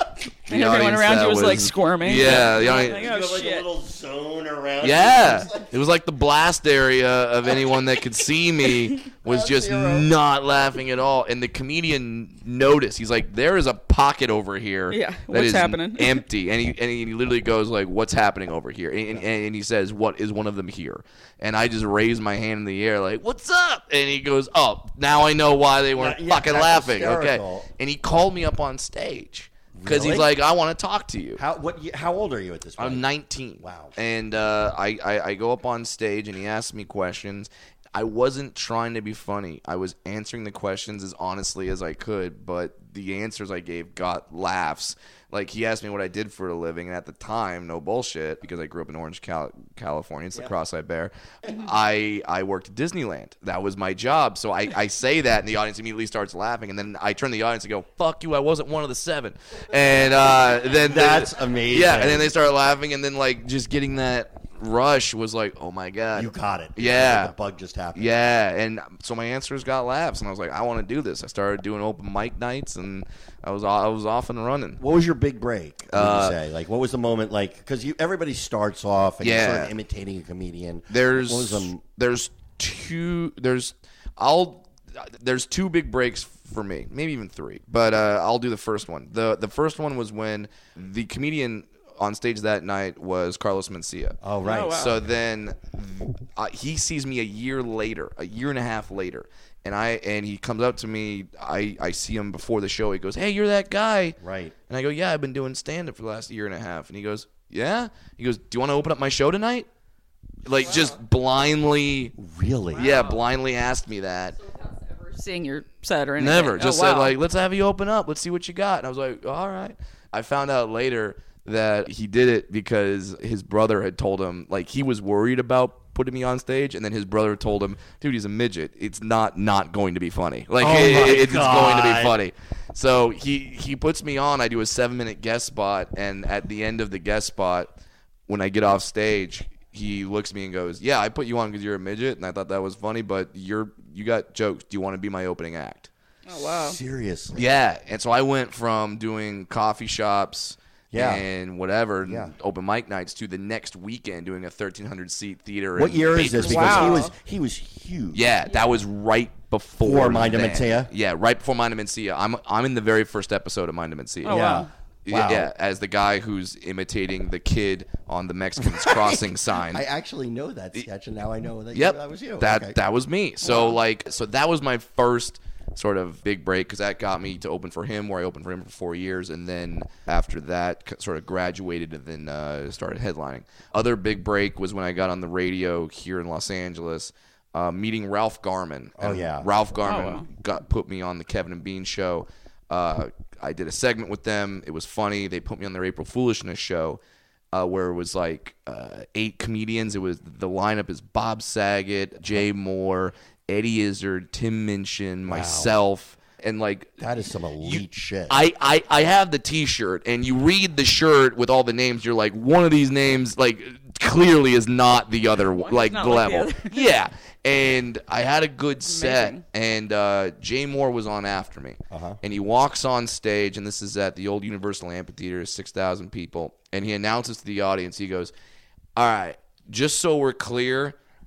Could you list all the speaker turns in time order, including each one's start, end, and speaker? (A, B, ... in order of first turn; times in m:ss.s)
0:00.5-0:03.0 A
0:00.5-0:03.7 B
0:02.2-0:05.7 C
0:04.8-0:31.4 A
0:09.1-0:10.1 C
0:14.9-0:16.2 B
0:25.9-0:27.7 C
0:29.7-0:30.3 C
0:31.4-0:33.0 C
0:32.8-1:07.3 A
0:33.6-0:34.0 C
0:59.9-1:02.3 C
1:06.1-1:08.3 C
1:07.9-1:14.8 A
1:14.8-1:21.8 C
1:15.9-1:16.4 A
1:19.2-1:19.7 A
1:20.9-1:34.2 A
1:34.2-1:34.9 C
1:34.4-1:35.0 B
1:34.7-1:44.2 A
1:44.2-1:44.5 C
1:44.7-1:49.7 A
1:50.4-1:52.1 A
1:50.6-1:50.9 B
1:52.2-1:52.9 C
1:52.7-1:53.2 B
1:52.7-1:54.4 A
1:54.3-1:57.1 B
1:56.2-2:17.7 A
2:10.6-2:12.1 C
2:18.3-2:25.9 A
2:26.2-2:26.8 B
2:26.3-2:27.5 C
2:27.3-2:37.0 A
2:30.9-2:31.2 C
2:32.0-2:32.3 C
2:35.8-2:38.3 C
2:36.4-2:37.1 B
2:38.1-2:49.8 A
2:39.8-2:40.9 C
2:44.2-2:44.7 B
2:44.3-2:45.5 C
2:48.6-2:52.8 C
2:51.7-3:17.0 A
2:53.4-2:53.7 B
3:09.0-3:09.5 C
3:09.8-3:10.3 B
3:17.5-3:27.0 A
3:25.2-3:25.7 C
3:27.0-3:28.4 C
3:27.6-3:48.3 A
3:35.4-3:36.8 B
3:38.8-3:39.4 B
3:41.9-3:42.2 C
3:49.0-3:51.0 A